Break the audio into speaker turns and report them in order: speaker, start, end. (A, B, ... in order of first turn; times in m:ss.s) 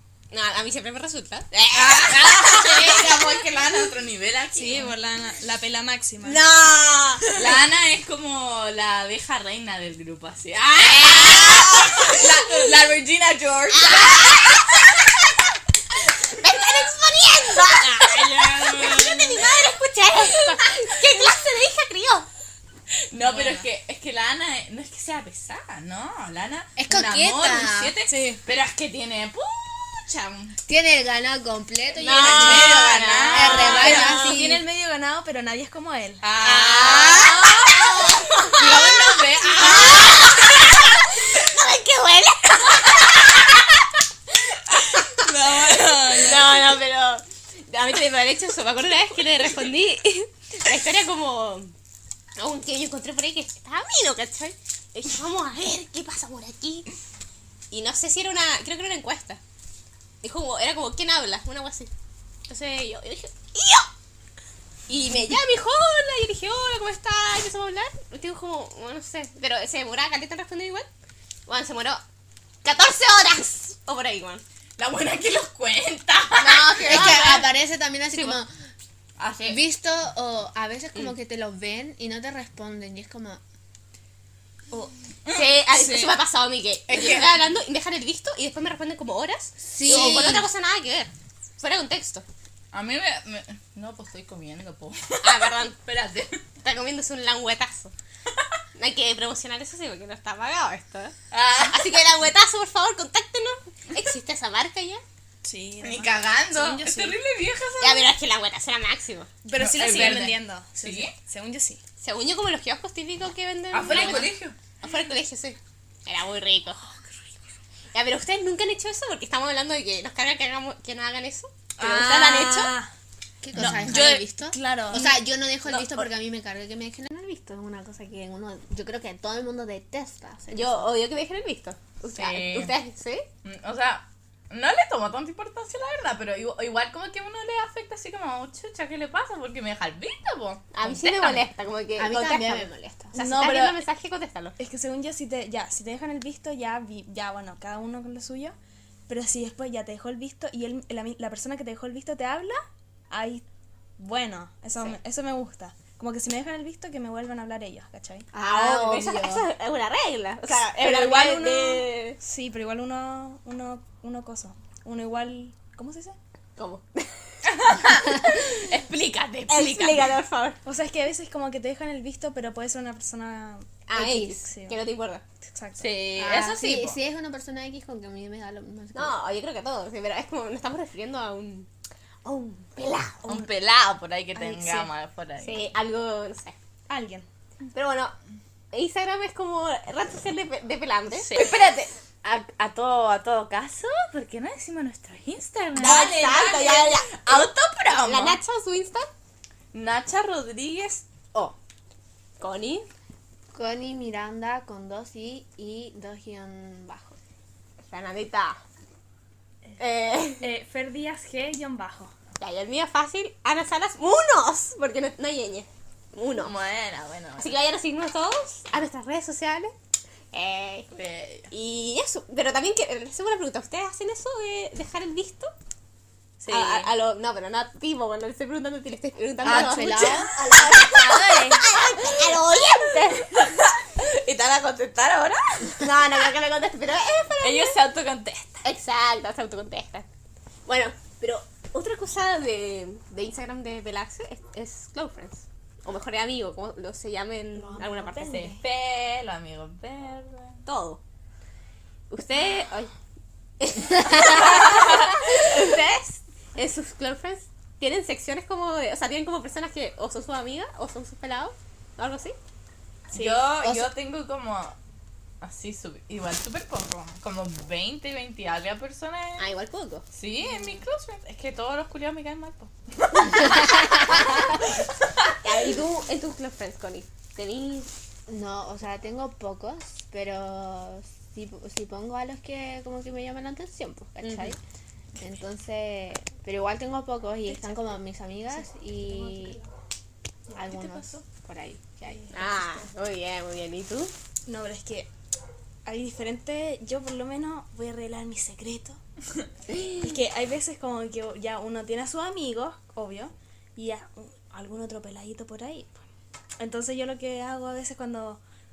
0:00.3-0:03.4 A
0:01.7-0:04.9 B
0:04.5-0:06.4 C
0:06.2-0:07.2 A
0:07.4-0:15.1 B
0:10.8-0:12.7 A
0:13.7-0:14.9 A
0:16.4-0:22.3 A
0:16.6-0:16.9 B
0:17.7-0:19.6 B
0:23.1-0:30.6 B
0:23.3-0:23.6 A
0:26.8-0:27.9 D
0:28.1-0:28.4 C
0:30.6-0:34.6 D
0:32.0-0:34.0 A
0:32.2-0:34.3 B
0:33.7-0:36.2 C
0:36.2-0:40.6 B
0:36.4-0:39.0 A
0:39.5-0:43.6 A
0:45.2-0:46.6 C
0:45.3-0:46.2 B
0:46.1-0:51.7 A
0:52.4-0:56.9 A
0:57.7-0:59.4 A
1:00.2-1:01.9 A
1:02.5-1:03.9 A
1:04.9-1:10.9 A
1:11.5-1:12.0 A
1:12.6-1:14.4 A
1:14.8-1:17.5 B
1:16.4-1:17.4 A
1:16.8-1:18.5 D
1:19.2-1:19.6 B
1:19.4-1:23.4 D
1:25.3-1:32.2 A
1:25.7-1:26.1 C
1:26.9-1:27.3 B
1:29.6-1:30.5 D
1:29.9-1:30.3 B
1:32.7-1:36.4 B
1:35.2-1:35.8 A
1:36.6-1:37.9 A
1:38.8-1:45.0 A
1:41.3-1:42.1 B
1:45.4-1:47.2 C
1:45.8-1:48.1 B
1:47.8-1:49.3 A
1:49.4-1:51.8 C
1:49.5-1:51.1 B
1:52.0-1:56.8 A
1:53.7-1:54.6 B
1:53.9-1:54.3 C
1:57.9-2:02.7 A
2:01.8-2:02.9 C
2:03.4-2:10.9 D
2:03.5-2:03.9 B
2:03.6-2:05.2 C
2:05.7-2:06.1 C
2:10.5-2:13.2 A
2:12.1-2:12.8 B
2:13.4-2:21.4 B
2:20.7-2:24.5 A
2:22.0-2:23.1 D
2:23.1-2:23.8 C
2:24.6-2:28.6 C
2:29.1-2:33.4 C
2:34.0-2:38.3 C
2:38.3-2:39.5 D
2:38.4-2:42.2 A
2:40.5-2:41.8 B
2:42.2-2:46.2 C
2:46.6-2:47.3 A
2:47.6-2:50.1 B
2:49.5-2:50.6 A
2:50.6-2:54.8 C
2:53.9-2:55.2 A
2:54.0-2:54.2 D
2:55.4-2:55.9 C
2:55.8-2:57.0 B
2:56.2-2:59.2 D
2:58.9-3:01.7 A
3:02.2-3:03.2 A
3:03.2-3:05.6 B
3:04.3-3:04.9 C
3:05.4-3:06.6 A
3:06.9-3:07.3 C
3:07.7-3:08.2 A
3:08.7-3:11.4 A
3:11.3-3:18.4 B
3:15.8-3:17.5 A
3:18.0-3:19.1 A
3:19.7-3:21.6 B
3:22.4-3:22.9 A
3:23.5-3:27.2 D
3:27.8-3:28.6 A
3:29.8-3:30.5 A
3:30.4-3:32.1 C
3:32.4-3:36.5 A
3:36.4-3:37.6 B
3:37.4-3:39.7 A
3:40.3-3:40.9 A
3:40.9-3:41.5 B
3:41.5-3:45.5 A
3:46.4-3:46.9 B
3:46.5-3:53.4 A
3:49.4-3:50.3 D
3:49.5-3:50.9 B
3:50.6-3:51.6 C
3:52.0-3:56.2 B
3:55.8-3:57.8 A
3:57.4-3:58.6 B
3:58.6-4:00.1 A
4:00.6-4:08.3 A
4:07.5-4:08.6 C
4:08.2-4:10.6 B
4:10.6-4:11.0 A
4:12.1-4:12.9 A
4:13.6-4:22.4 A
4:14.6-4:15.0 B
4:23.1-4:24.7 B
4:23.1-4:23.5 C
4:25.4-4:29.5 B
4:29.4-4:30.0 A
4:30.1-4:33.8 B
4:33.3-4:34.1 D
4:35.4-4:37.9 A
4:38.3-4:44.6 D
4:44.2-4:44.5 A
4:45.2-4:49.6 D
4:47.5-4:48.3 C
4:48.9-4:49.6 C
4:50.5-4:51.2 B
4:50.5-4:52.5 D
4:52.3-4:54.1 A
4:54.4-4:55.1 C
4:55.8-4:59.0 C
4:59.7-5:00.0 A
5:00.0-5:06.0 C
5:06.6-5:08.4 C